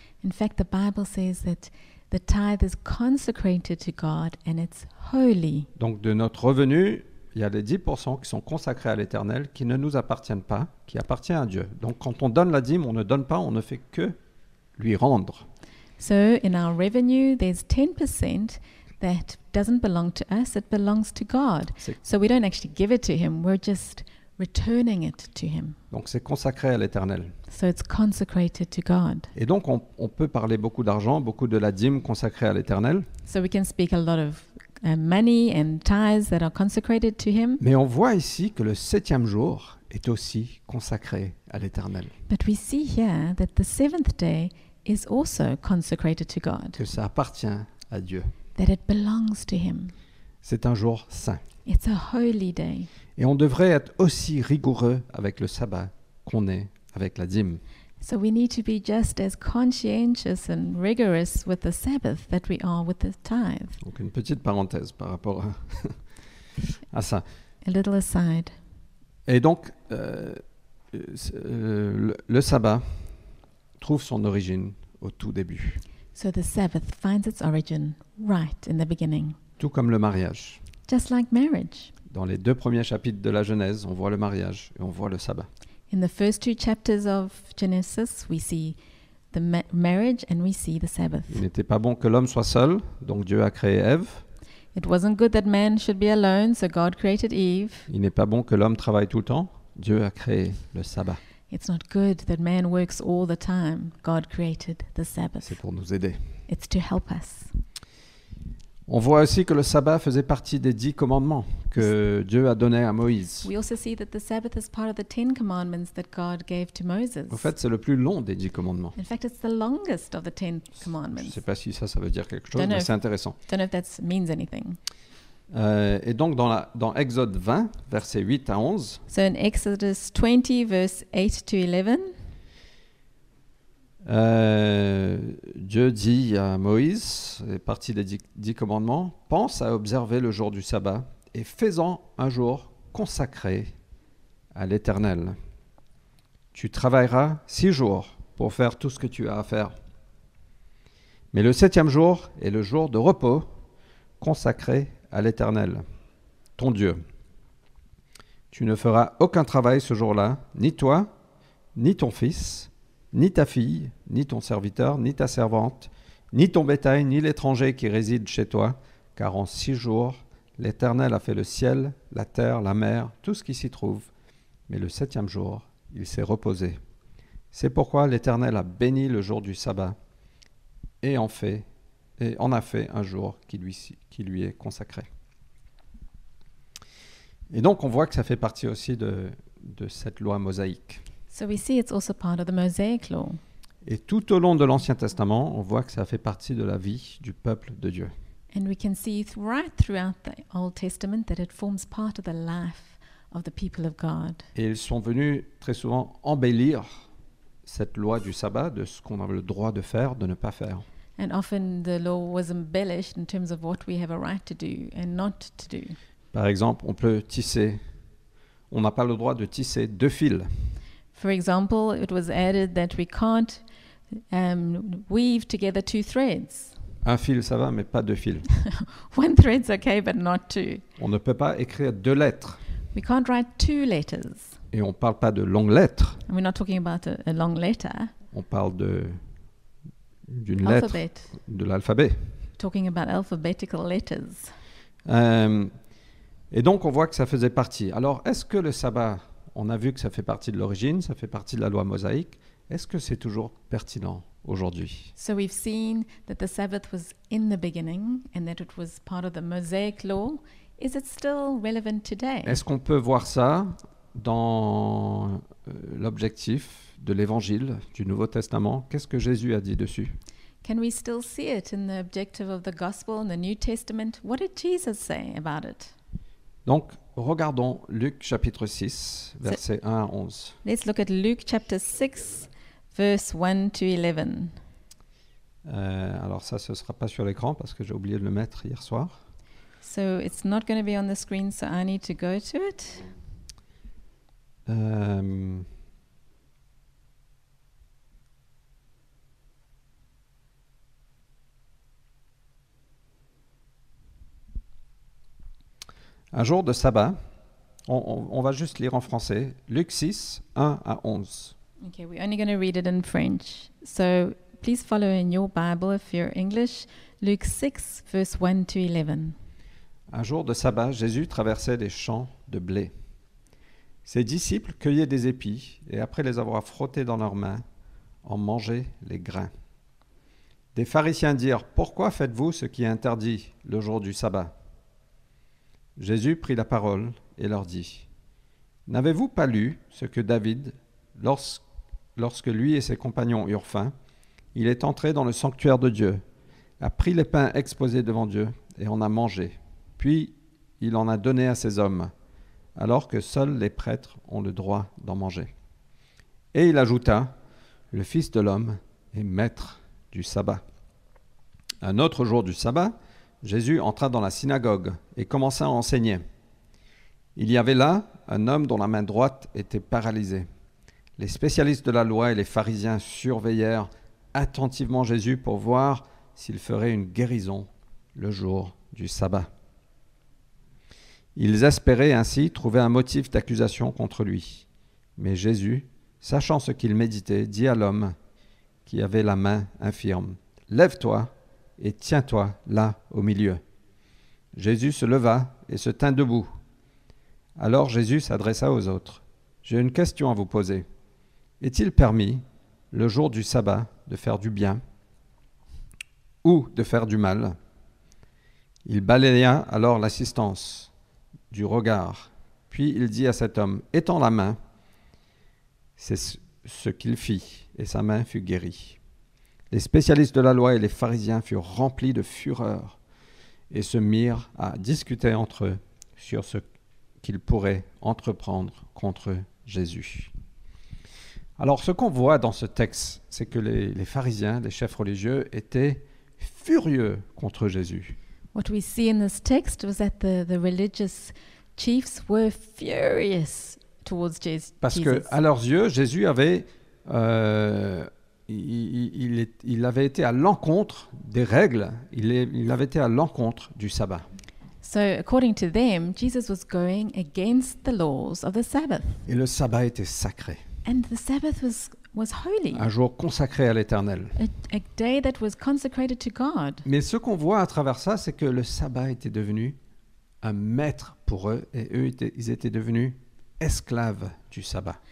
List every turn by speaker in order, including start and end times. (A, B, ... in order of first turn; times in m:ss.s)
0:00.2-0:05.7 A
0:05.8-0:14.2 B
0:14.8-0:15.4 B
0:16.0-0:25.8 A
0:25.9-0:27.3 B
0:27.5-0:29.3 A
0:29.3-0:33.1 B
0:33.3-0:37.6 A
0:37.6-0:42.1 B
0:42.3-0:46.8 A
0:46.8-0:48.3 B
0:48.6-0:49.9 A
0:50.4-0:51.4 B
0:51.6-0:52.9 A
0:53.2-0:57.6 B
0:58.0-1:03.8 A
1:03.8-1:06.0 B
1:06.9-1:07.2 B
1:07.6-1:08.5 A
1:09.2-1:10.4 B
1:10.9-1:13.1 B
1:13.8-1:15.8 B
1:16.1-1:19.4 A
1:19.6-1:20.6 B
1:20.9-1:21.9 A
1:22.1-1:25.5 B
1:25.9-1:28.8 A
1:29.3-1:31.4 A
1:31.3-1:34.2 B
1:34.7-1:37.9 A
1:37.9-1:41.2 B
1:41.5-1:45.6 A
1:45.4-1:46.2 B
1:46.5-1:47.5 A
1:48.9-1:53.5 B
1:53.4-1:57.5 A
1:57.3-1:59.0 B
1:59.0-2:01.4 A
2:01.1-2:03.4 B
2:02.5-2:02.9 A
2:03.4-2:04.8 A
2:05.5-2:09.0 B
2:09.1-2:12.1 A
2:14.0-2:23.7 B
2:24.5-2:25.4 B
2:26.5-2:29.7 B
2:31.3-2:33.5 B
2:34.2-2:35.8 B
2:36.6-2:37.0 B
2:38.5-2:41.1 B
2:41.8-2:54.1 B
2:54.7-2:56.8 B
2:57.5-3:00.0 B
3:01.0-3:01.6 B
3:02.2-3:05.1 B
3:07.5-3:11.0 B
3:11.3-3:13.4 A
3:13.8-3:18.1 B
3:18.5-3:24.5 A
3:24.5-3:27.0 B
3:27.6-3:30.8 B
3:31.2-3:36.0 A
3:36.3-3:37.8 B
3:38.7-3:40.5 B
3:41.1-3:43.6 A
3:44.3-3:46.7 A
3:47.0-3:48.4 B
3:48.5-3:50.8 A
3:51.0-3:52.6 B
3:52.9-3:54.6 A
3:54.7-3:56.2 B
3:56.3-3:58.1 A
3:58.3-3:59.2 B
4:00.3-4:02.3 B
4:00.6-4:01.4 A
4:02.6-4:04.5 A
4:05.0-4:05.7 B
4:06.5-4:15.1 B
4:15.2-4:22.6 A
4:22.4-4:30.2 B
4:30.6-4:35.9 A
4:36.6-4:40.6 B
4:40.6-4:44.6 A
4:45.6-4:49.1 B
4:49.8-4:53.1 A
4:54.7-4:55.7 B
5:06.3-5:07.2 B
5:07.9-5:11.5 B
5:11.8-5:19.4 A
5:20.1-5:22.9 B
5:24.0-5:27.6 B
5:28.2-5:29.5 B
5:30.7-5:34.5 B
5:36.0-5:38.1 B
5:38.9-5:41.6 B
5:42.2-5:43.9 B
5:44.5-5:46.2 B
5:46.8-5:52.1 B
5:52.8-5:55.5 B
5:56.5-5:57.3 B
5:57.9-6:00.6 B
6:01.8-6:06.2 B
6:07.4-6:10.4 B
6:11.2-6:19.5 B
6:21.4-6:28.1 B
6:28.8-6:33.6 B
6:34.5-6:36.5 B
6:37.6-6:40.8 B
6:41.6-6:44.8 B
6:46.4-6:47.6 B
6:48.8-6:50.9 B
6:51.5-6:54.6 B
6:56.0-6:59.0 B
6:59.7-7:03.0 B
7:03.7-7:06.6 B
7:07.2-7:10.3 B
7:11.6-7:18.2 B
7:18.5-7:25.3 A
7:24.8-7:34.2 B
7:34.8-7:39.2 A
7:39.3-7:40.6 B
7:40.8-7:42.9 A
7:42.7-7:44.4 B
7:44.4-7:46.8 A
7:46.8-7:49.8 B
7:50.4-7:55.0 B